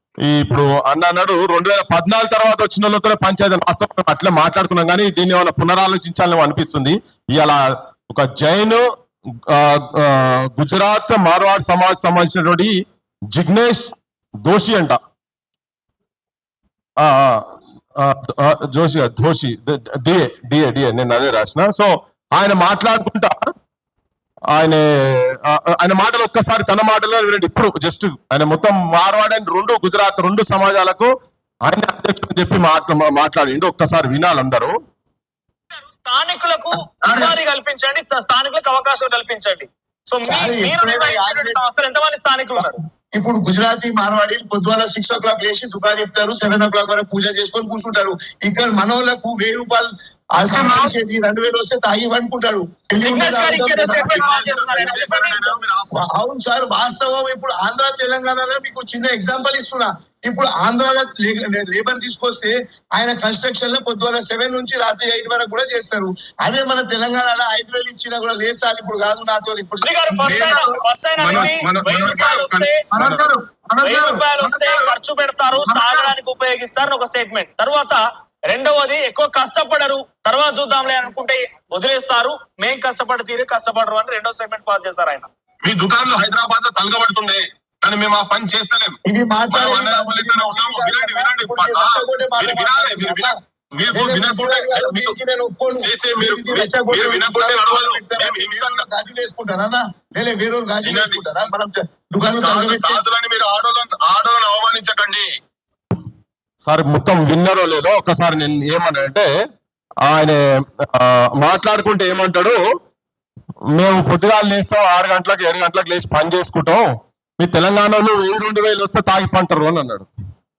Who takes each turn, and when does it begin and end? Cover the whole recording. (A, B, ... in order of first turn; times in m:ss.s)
0:00.2-0:07.6 A
0:08.1-0:08.8 A
0:09.5-0:12.7 A
0:13.3-0:13.9 A
0:14.4-0:15.0 A
0:17.0-0:17.4 A
0:18.0-0:23.3 A
0:24.5-0:31.1 A
0:31.6-0:34.7 A
0:35.7-0:42.8 B
0:37.0-0:37.4 C
0:40.2-0:41.6 C
0:43.2-0:54.2 C
0:50.5-0:50.9 A
0:53.0-0:55.5 B
0:54.1-0:56.0 A
0:55.9-1:10.7 C
1:09.8-1:12.8 B
1:10.2-1:10.6 A
1:11.2-1:13.3 A
1:13.0-1:14.2 C
1:13.8-1:25.3 B
1:14.4-1:14.9 A
1:25.6-1:29.0 A
1:29.1-1:33.3 C
1:29.5-1:35.2 A
1:33.9-1:43.0 C
1:35.7-1:38.8 A
1:40.8-1:41.2 A
1:42.4-1:45.3 A
1:46.6-1:49.3 A
1:50.0-1:52.6 A
1:53.7-1:56.8 A
1:57.4-2:00.1 A